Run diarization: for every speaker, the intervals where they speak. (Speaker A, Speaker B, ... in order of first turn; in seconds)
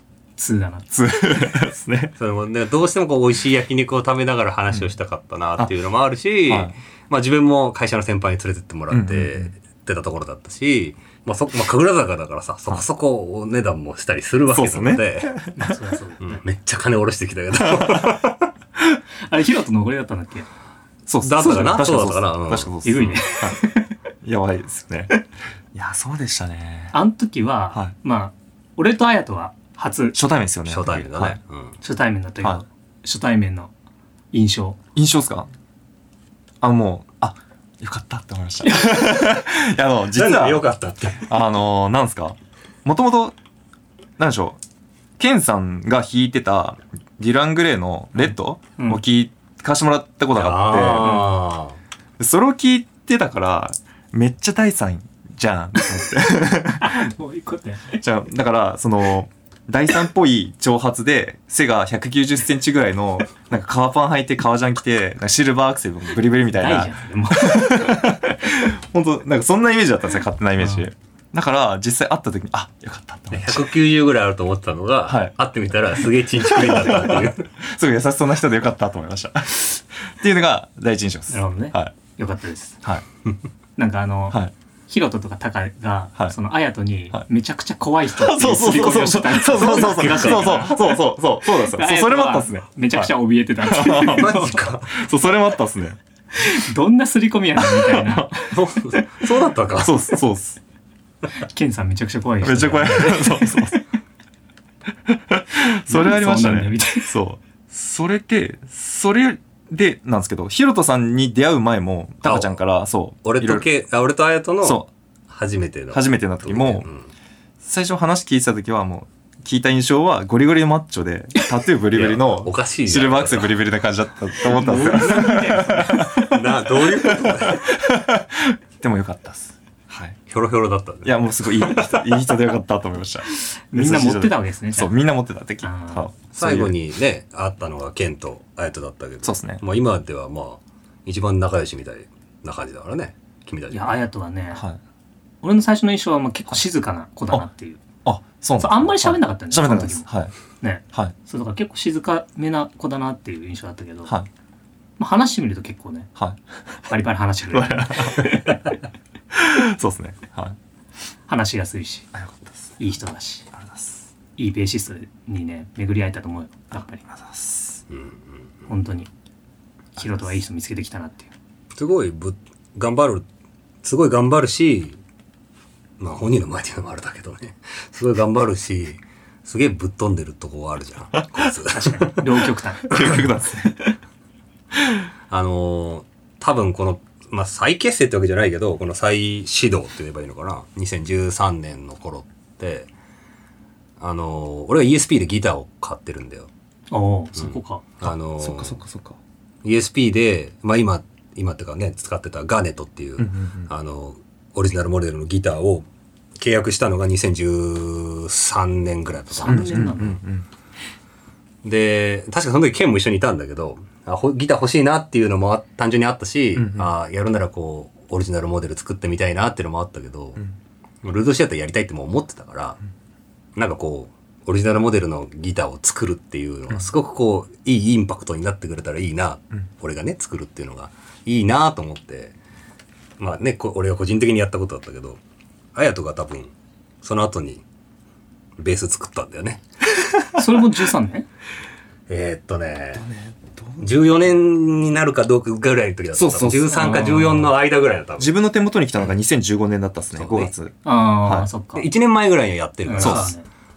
Speaker A: 0.4-0.9, 15.6-16.4, 19.2-20.5, 22.8-23.9, 26.9-30.2, 31.8-33.7, 34.3-34.8, 38.7-39.0, 48.8-49.0, 56.8-58.0, 66.5-68.1, 81.3-82.8, 83.8-94.6, 96.3-98.5, 101.4-103.8, 105.9-107.1, 124.5-126.4, 133.3-134.9, 135.6-136.1, 143.7-144.6, 145.4-147.8, 148.6-150.1, 150.6-154.1, 155.0-156.1, 156.9-158.6, 161.3-162.1, 162.8-163.5, 164.4-167.0, 168.7-169.1, 170.0-171.3, 181.7-183.0, 196.9-197.8, 209.3-210.2, 240.3-241.3, 250.8-251.9, 252.8-253.4
Speaker B: 0.9-2.1, 6.5-6.8, 8.9-9.5, 14.5-15.7, 17.6-18.2, 21.1-23.6, 24.2-25.2, 25.7-26.9, 30.1-31.4, 35.0-35.5, 36.6-40.6, 41.2-43.4, 44.2-44.6, 45.2-51.2, 52.2-57.1, 58.0-73.7, 75.1-75.3, 76.4-81.9, 88.1-93.1, 93.7-96.0, 97.6-98.5, 99.7-100.6, 102.4-103.8, 105.1-113.7, 114.6-114.9, 115.9-116.9, 117.6-126.3, 127.0-130.2, 131.0-136.8, 139.2-139.6, 144.6-144.8, 148.1-150.3, 156.2-156.4, 157.5-158.6, 159.3-160.6, 162.1-162.8, 163.5-164.1, 167.1-167.8, 181.2-181.5, 182.9-184.0, 198.0-199.2, 203.2-203.7, 209.5-210.5, 216.6-216.9, 242.9-243.9, 246.2-247.5, 248.2-251.5, 253.0-253.3
Speaker C: 2.2-15.4, 16.2-18.5, 21.2-22.8, 30.7-31.8, 40.1-41.3, 50.3-51.8, 73.3-77.5, 89.6-90.7, 94.0-94.9, 98.5-100.0, 112.2-112.5, 113.2-117.1, 121.9-123.6, 124.8-127.7, 130.3-132.2, 136.4-144.0, 167.9-168.2, 171.8-173.2, 173.8-175.0, 176.0-182.2, 185.3-192.9, 194.0-196.5, 197.4-198.8, 199.6-205.9, 206.4-209.9, 211.6-220.4, 221.0-222.8, 223.6-232.3, 233.2-235.2, 235.8-236.5, 237.0-237.6, 238.6-239.6, 242.1-243.1, 243.8-248.3, 250.1-250.5, 251.8-253.3